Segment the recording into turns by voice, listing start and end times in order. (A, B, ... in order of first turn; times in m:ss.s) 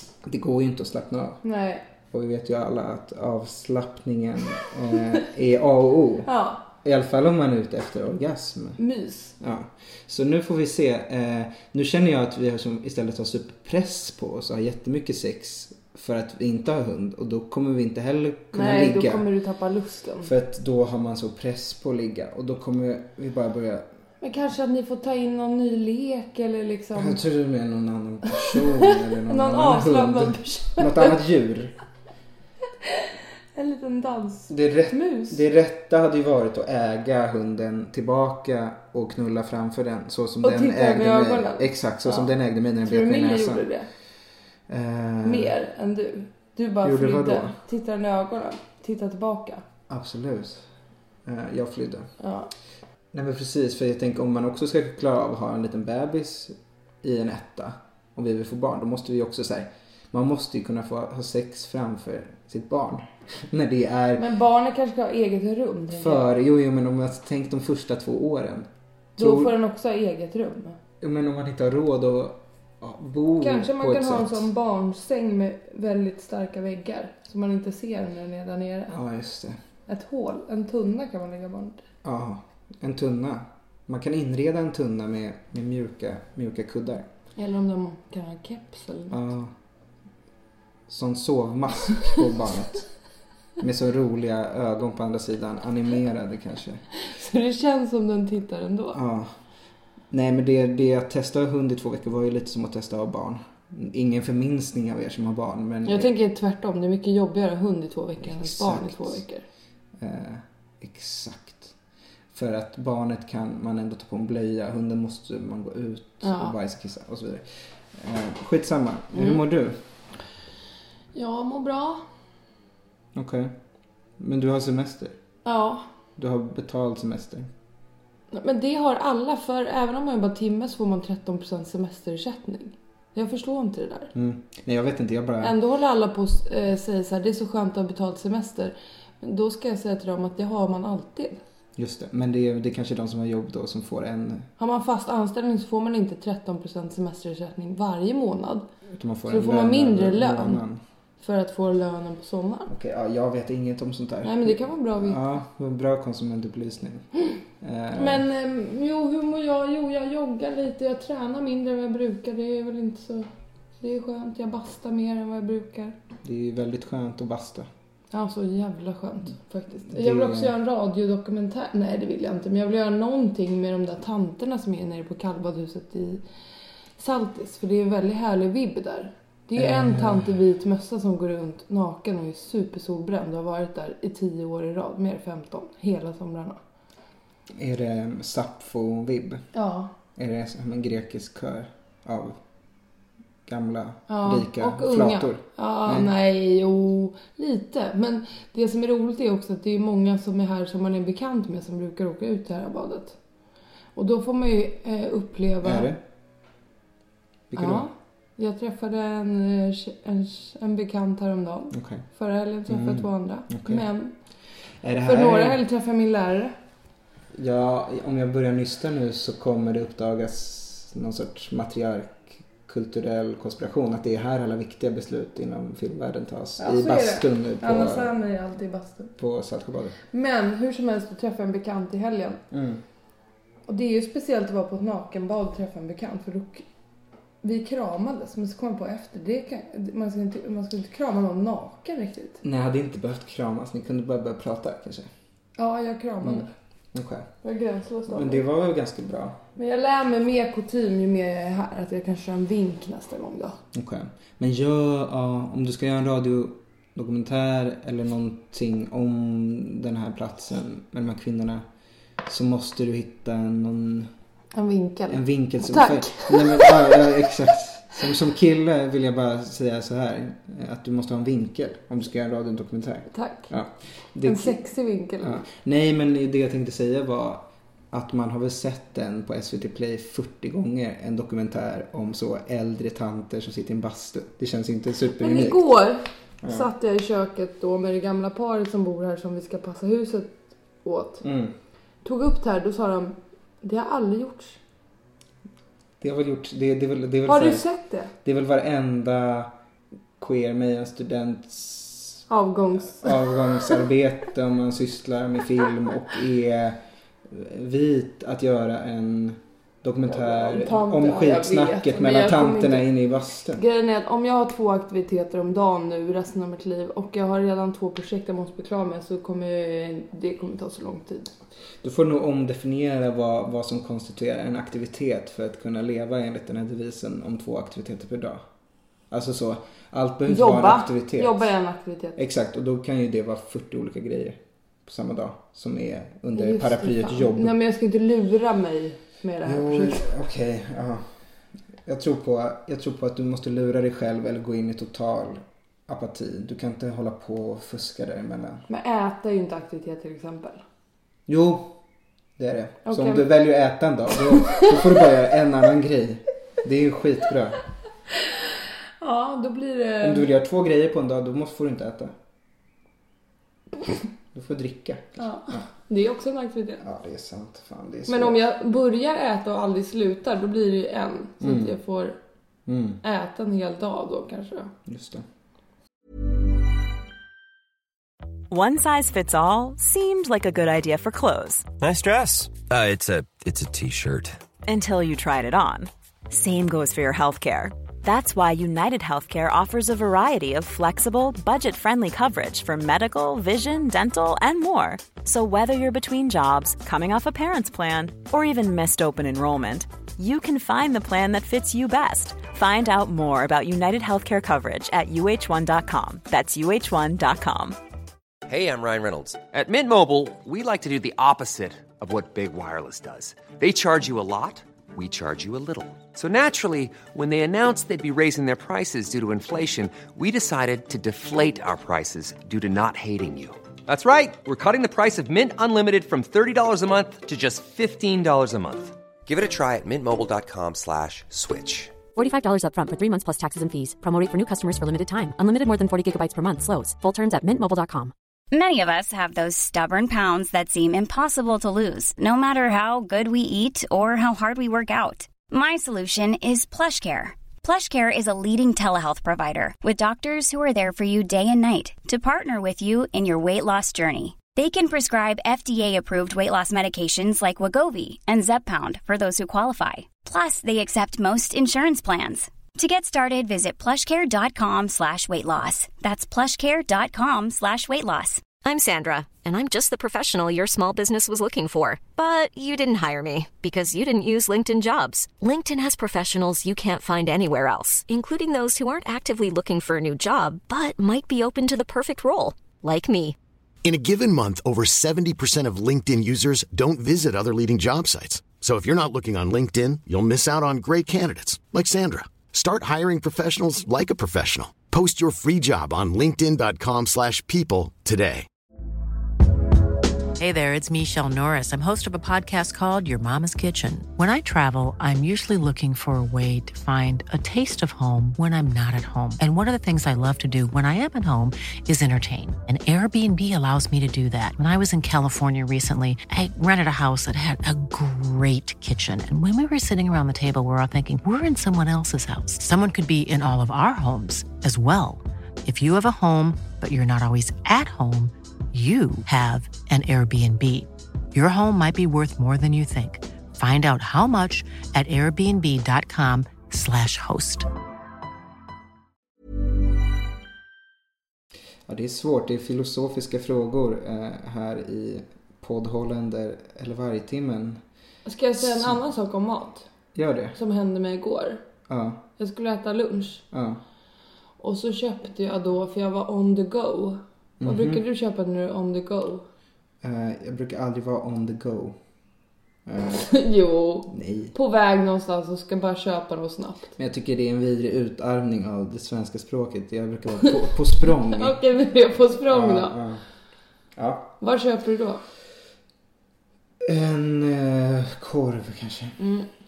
0:00.2-0:01.4 A
0:01.4-0:01.8 B
0:02.1-0:06.3 A
0:06.2-0:06.6 B
0:06.8-0:08.8 A
0:08.8-0:09.3 B
0:09.4-0:19.2 A
0:18.5-0:20.3 B
0:20.2-0:23.8 A
0:24.2-0:27.2 B
0:26.9-0:31.7 A
0:28.3-0:31.2 B
0:33.0-0:35.4 B
0:34.5-0:43.7 A
0:40.4-0:42.3 B
0:42.8-0:43.9 B
0:44.7-0:45.5 A
0:45.2-0:49.6 B
0:46.8-0:47.6 A
0:49.9-0:50.6 A
0:51.2-0:52.1 A
0:52.2-0:52.5 B
0:53.1-1:04.2 A
1:04.2-1:06.3 B
1:05.9-1:09.5 A
1:09.2-1:10.8 B
1:11.0-1:14.5 A
1:13.4-1:19.0 B
1:18.9-1:19.6 A
1:19.9-1:21.8 B
1:22.0-1:27.1 A
1:27.4-1:29.2 B
1:29.1-1:29.5 A
1:30.9-1:32.9 A
1:33.6-1:36.8 A
1:37.0-1:39.0 B
1:38.9-1:39.4 A
1:40.1-1:46.1 A
1:45.8-1:49.4 B
1:48.2-1:49.2 A
1:50.0-1:51.7 A
1:52.3-1:59.8 A
1:56.2-1:56.5 B
2:01.1-2:02.0 B
2:03.1-2:03.6 A
2:04.2-2:05.2 A
2:05.4-2:05.8 B
2:06.2-2:07.5 A
2:08.3-2:14.1 B
2:14.1-2:15.6 A
2:15.4-2:21.4 B
2:21.8-2:24.5 A
2:24.6-2:28.6 B
2:28.9-2:30.8 A
2:29.3-2:30.6 B
2:31.2-2:32.7 B
2:32.7-2:37.0 A
2:34.2-2:35.2 B
2:37.6-2:38.2 A
2:38.0-2:43.3 B
2:43.8-2:45.9 B
2:46.2-2:47.7 A
2:48.1-2:56.2 B
2:49.9-2:50.5 A
2:57.0-3:06.6 B
2:59.6-3:00.3 A
3:07.5-3:09.5 A
3:09.5-3:09.9 B
3:10.2-3:12.4 A
3:13.4-3:16.1 A
3:14.1-3:23.2 B
3:24.0-3:25.9 B
3:25.6-3:26.0 A
3:27.5-3:27.9 A
3:27.5-3:34.1 B
3:31.7-3:32.0 A
3:32.7-3:33.8 A
3:34.8-3:35.6 A
3:35.0-3:36.6 B
3:37.3-3:48.2 A
3:46.6-3:49.1 B
3:49.2-3:50.0 A
3:50.1-3:52.4 B
3:52.5-3:52.8 A
3:53.7-3:56.6 B
3:57.4-4:02.4 B
4:02.4-4:05.1 A
4:05.6-4:06.5 B
4:06.2-4:07.3 A
4:07.4-4:08.4 B
4:08.1-4:09.4 A
4:09.6-4:13.6 B
4:13.7-4:21.6 A
4:22.2-4:24.1 A
4:24.5-4:27.0 B
4:25.1-4:34.6 A
4:33.1-4:33.5 B
4:34.2-4:35.4 B
4:35.2-4:45.7 A
4:45.2-4:51.2 B
4:46.4-4:46.7 A
4:51.2-4:51.5 A
4:52.0-4:54.6 B
4:56.0-4:57.6 A
4:57.2-4:58.1 B
4:58.2-4:59.5 A
5:00.2-5:02.2 A
5:02.3-5:03.8 B
5:02.9-5:13.6 A
5:10.0-5:12.9 B
5:13.6-5:21.3 B
5:21.8-5:28.4 A
5:29.1-5:31.5 A
5:30.3-5:32.2 B
5:32.2-5:37.6 A
5:36.3-5:40.1 B
5:39.4-5:41.0 A
5:41.8-5:48.6 A
5:48.7-5:50.6 B
5:51.3-5:51.7 A
5:52.4-5:57.6 A
5:52.9-5:53.3 B
5:59.0-6:00.3 B
6:00.0-6:02.1 A
6:04.3-6:05.6 A
6:05.2-6:06.8 B
6:06.8-6:08.4 A
6:08.1-6:12.2 B
6:11.4-6:11.8 A
6:12.6-6:13.0 A
6:13.0-6:14.7 B
6:14.8-6:15.2 A
6:18.5-6:21.7 C
6:21.8-6:24.4 D
6:24.6-6:47.8 C
6:48.5-7:11.9 E
7:12.2-7:18.1 F
7:18.5-7:48.4 G
7:48.6-8:03.4 H
8:03.8-8:18.5 I
8:20.4-8:57.7 J
9:01.9-9:07.8 A
9:08.2-9:09.8 B
9:08.6-9:09.0 A
9:10.1-9:10.6 A
9:10.5-9:11.6 B
9:11.9-9:12.2 A
9:12.4-9:13.4 B
9:13.5-9:13.8 A
9:14.6-9:19.4 B
9:17.6-9:18.0 A
9:20.0-9:22.0 A
9:22.8-9:23.3 A
9:23.2-9:26.9 B
9:24.1-9:24.5 A
9:27.0-9:31.6 A
9:31.2-9:33.0 B
9:32.4-9:33.2 A
9:34.0-9:34.3 A
9:34.4-9:35.2 B
9:36.8-9:39.2 A
9:39.2-9:39.5 B